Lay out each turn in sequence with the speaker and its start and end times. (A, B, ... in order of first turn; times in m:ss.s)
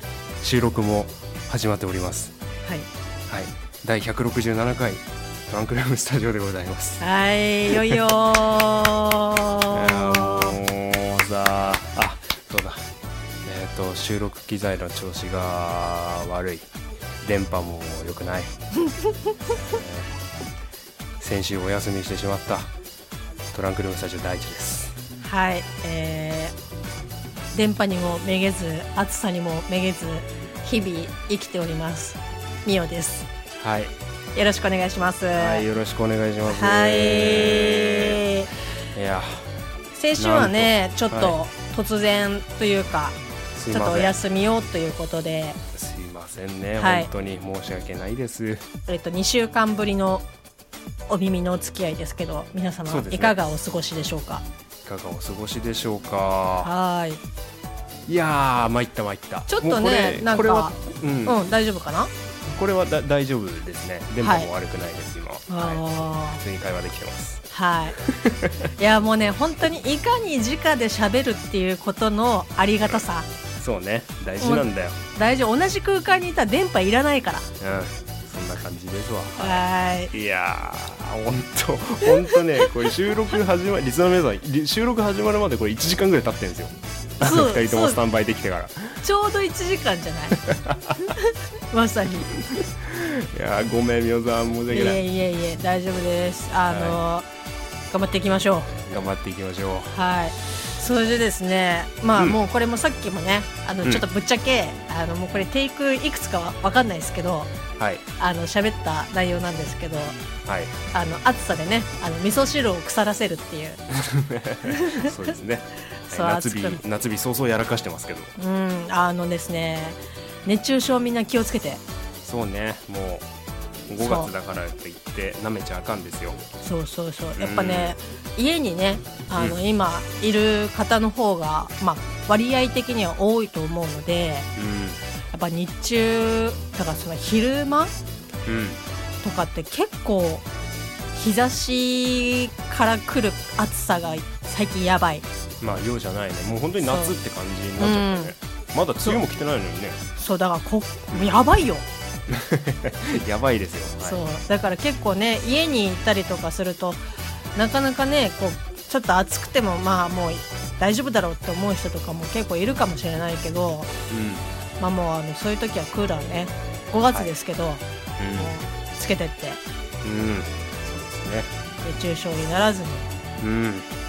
0:00.4-0:02.3 A
0:03.3-0:07.0 A
0:07.0-0:10.6 B
0:07.7-0:08.0 A
0:09.7-0:12.8 A
0:13.4-0:16.7 A
0:17.2-0:18.6 A
0:19.5-0:20.1 A
0:21.2-0:22.7 A
0:23.5-0:25.0 A
0:25.2-0:26.5 B
0:27.5-0:33.3 B
0:33.6-0:33.9 A
0:34.3-0:35.6 B
0:35.4-0:38.2 A
0:36.4-0:38.5 B
0:38.9-0:39.5 A
0:39.9-0:43.2 B
0:40.2-0:41.4 A
0:43.5-0:44.1 A
0:43.7-0:45.6 B
0:45.7-0:48.6 A
0:46.8-0:47.1 B
0:48.9-0:50.2 B
0:51.1-0:54.4 B
0:52.9-0:53.4 A
0:54.8-0:56.7 A
0:56.6-0:57.2 B
0:58.1-1:01.4 A
0:59.5-1:02.1 B
1:02.4-1:07.4 A
1:04.2-1:04.5 B
1:05.5-1:06.4 B
1:07.5-1:08.0 B
1:08.0-1:08.7 A
1:08.8-1:13.3 B
1:13.6-1:15.0 A
1:14.4-1:17.5 B
1:17.6-1:29.0 A
1:19.4-1:20.1 B
1:22.0-1:22.4 B
1:27.2-1:28.0 B
1:29.0-1:30.4 B
1:30.4-1:31.1 A
1:31.0-1:32.4 B
1:32.5-1:35.0 A
1:34.7-1:37.3 B
1:36.7-1:37.0 A
1:37.9-1:38.7 B
1:38.7-1:39.9 A
1:39.9-1:47.5 B
1:47.8-1:48.0 A
1:48.2-1:50.2 B
1:50.4-1:50.7 A
1:50.9-1:53.8 B
1:53.9-1:58.3 A
1:54.6-1:55.1 B
1:56.1-1:56.8 B
1:58.4-2:01.8 B
2:02.2-2:03.3 A
2:03.9-2:06.4 A
2:04.0-2:04.3 B
2:06.6-2:14.5 B
2:07.4-2:08.0 A
2:14.6-2:15.0 A
2:15.3-2:17.9 B
2:18.4-2:18.8 A
2:19.2-2:20.4 B
2:21.1-2:25.3 B
2:25.6-2:30.0 A
2:26.8-2:27.2 B
2:27.8-2:28.3 B
2:30.2-2:31.8 B
2:31.1-2:31.4 A
2:32.3-2:34.2 A
2:34.0-2:37.0 B
2:37.5-2:43.9 B
2:44.1-2:44.5 A
2:44.8-2:49.6 B
2:48.2-2:48.5 A
2:50.0-2:51.5 A
2:51.8-2:53.1 B
2:53.4-2:53.9 A